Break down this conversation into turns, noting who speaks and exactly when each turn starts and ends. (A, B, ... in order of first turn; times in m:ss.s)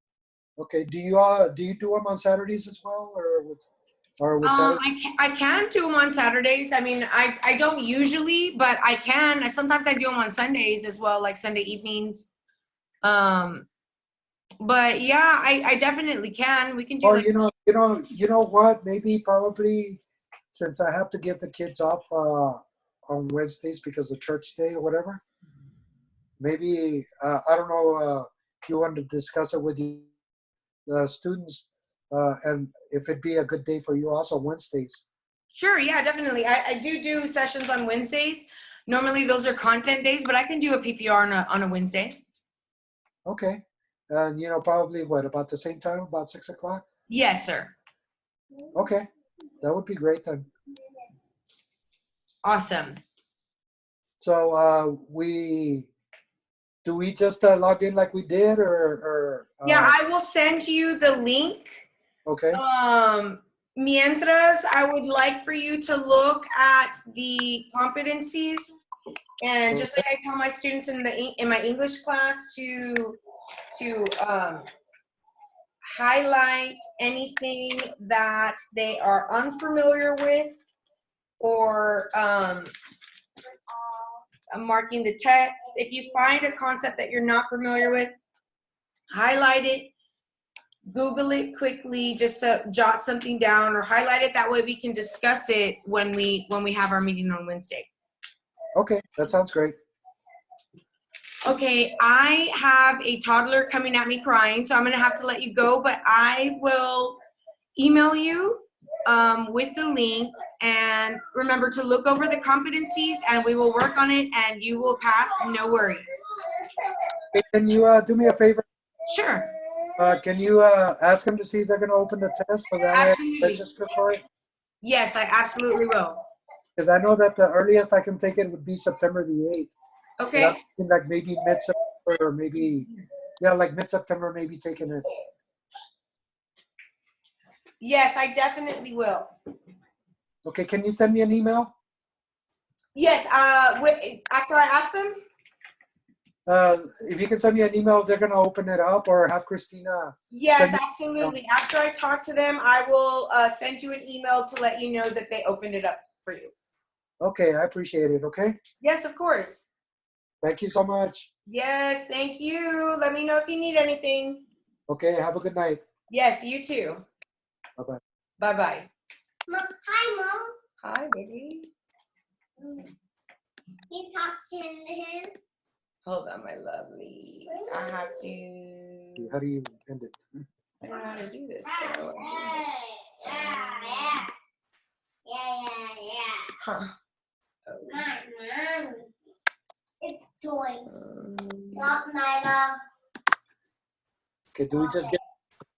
0:00.6-0:03.6 A
0:04.2-0:04.8 A
0:04.4-0:12.3 B
0:13.0-0:13.7 B
0:14.6-0:17.3 B
0:17.0-0:20.0 A
0:20.5-0:25.2 A
0:26.4-0:30.1 A
0:30.9-0:35.0 A
0:35.5-0:42.2 B
0:43.3-0:46.8 A
0:47.1-0:47.7 B
0:48.7-0:49.0 A
0:49.6-0:50.5 A
0:52.4-0:53.0 B
0:54.2-0:55.9 A
0:56.8-1:00.0 A
0:59.6-1:01.9 B
1:02.2-1:02.6 A
1:02.5-1:08.8 B
1:09.4-1:13.2 B
1:13.7-1:14.7 B
1:15.9-1:20.6 B
1:21.4-1:22.7 B
1:24.5-1:28.1 B
1:29.1-1:29.9 B
1:30.9-1:37.9 B
1:38.8-1:39.8 A
1:41.4-1:47.2 B
1:47.8-1:56.3 B
1:56.4-1:57.2 C
1:57.3-1:58.6 A
1:59.1-1:59.5 B
1:59.7-2:00.0 C
2:00.0-2:04.2 A
2:02.9-2:03.6 B
2:04.8-2:06.2 B
2:06.8-2:09.7 A
2:10.2-2:10.6 B
2:10.3-2:12.9 A
2:13.4-2:15.0 A
2:17.8-2:19.3 B
2:20.4-2:21.7 A
2:22.9-2:25.2 B
2:26.5-2:31.3 A
2:30.3-2:36.5 B
2:37.2-2:38.6 A
2:38.8-2:39.7 B
2:40.4-2:41.3 A
2:41.5-2:44.4 B
2:44.9-2:45.8 A
2:46.1-2:47.1 B
2:48.4-2:48.9 B
2:49.5-2:50.5 C
2:50.8-2:51.7 B
2:52.6-2:52.9 C
2:53.9-2:55.3 C
2:56.0-2:59.3 B
2:57.5-2:57.8 C
2:59.2-3:00.2 A
3:00.8-3:02.6 B
3:01.7-3:04.3 C
3:03.2-3:04.2 B
3:05.2-3:06.5 C
3:06.6-3:06.9 B
3:07.7-3:08.0 B
3:07.9-3:09.1 C
3:10.0-3:11.0 C
3:10.9-3:11.9 B
3:11.8-3:12.8 C
3:14.5-3:15.2 A
3:14.7-3:15.2 C